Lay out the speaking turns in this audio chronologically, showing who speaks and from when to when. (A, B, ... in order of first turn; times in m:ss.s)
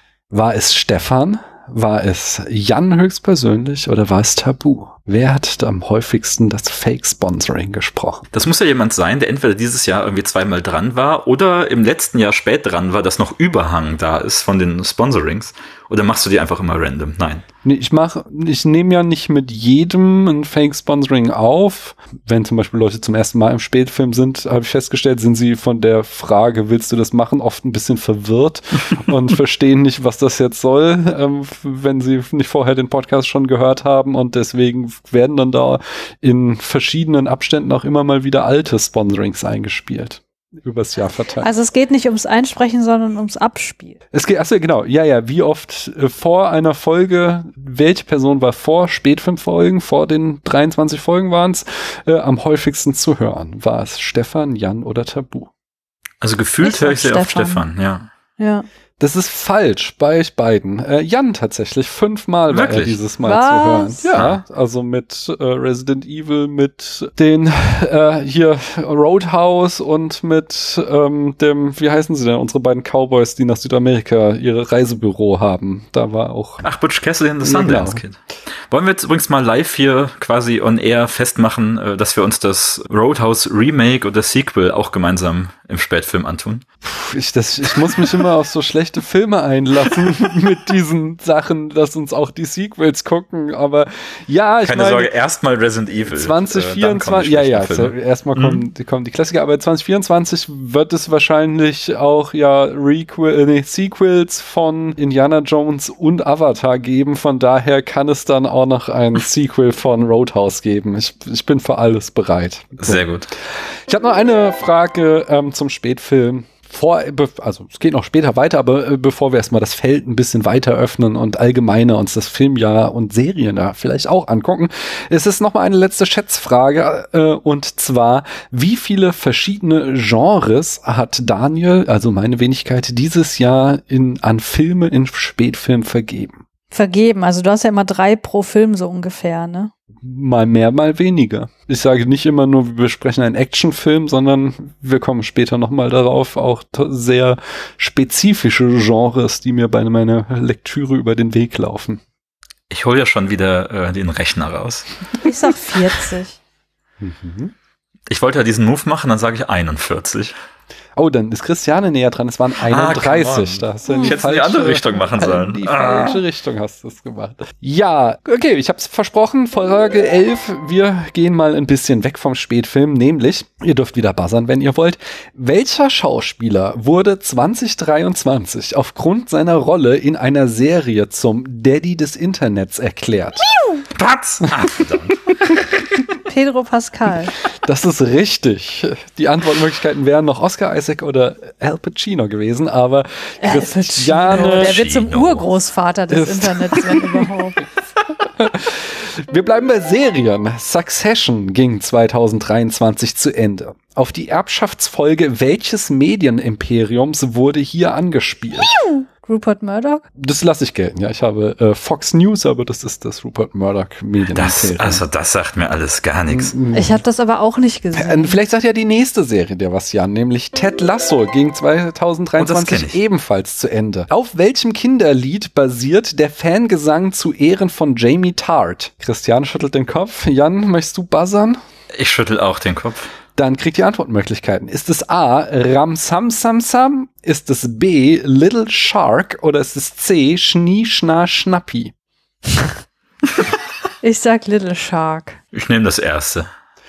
0:00.3-0:08.3 A
0:08.3-0:17.5 B
0:17.6-0:41.5 A
0:41.4-0:44.0 C
0:44.1-0:55.5 A
0:56.2-0:58.1 B
0:56.6-0:57.7 C
0:58.4-0:58.6 C
0:59.0-1:16.6 A
1:02.5-1:03.0 B
1:03.2-1:04.0 C
1:04.1-1:04.4 B
1:16.6-1:18.2 B
1:17.4-1:18.0 A
1:18.7-1:26.6 B
1:26.8-1:35.1 A
1:34.6-1:38.6 B
1:36.1-1:53.0 A
1:52.8-1:53.3 B
1:53.7-2:16.4 A
2:16.7-2:19.7 C
2:20.0-2:32.0 A
2:32.7-2:34.9 B
2:35.2-2:36.4 C
2:37.0-2:37.5 A
2:38.1-2:40.4 B
2:41.0-3:03.5 A
2:42.6-2:46.2 B
2:43.9-2:44.2 C
3:04.0-3:05.3 B
3:06.2-3:07.3 C
3:07.6-3:14.8 A
3:13.4-3:17.6 C
3:14.3-3:15.5 B
3:16.1-3:17.3 A
3:18.2-3:28.7 A
3:28.9-3:30.0 C
3:30.2-3:35.0 A
3:34.3-3:36.6 B
3:36.3-3:37.0 A
3:36.7-3:38.4 C
3:38.0-3:51.6 A
3:42.4-3:43.0 B
3:51.9-3:53.1 B
3:53.4-4:01.9 A
4:04.0-4:05.4 C
4:05.5-4:06.5 B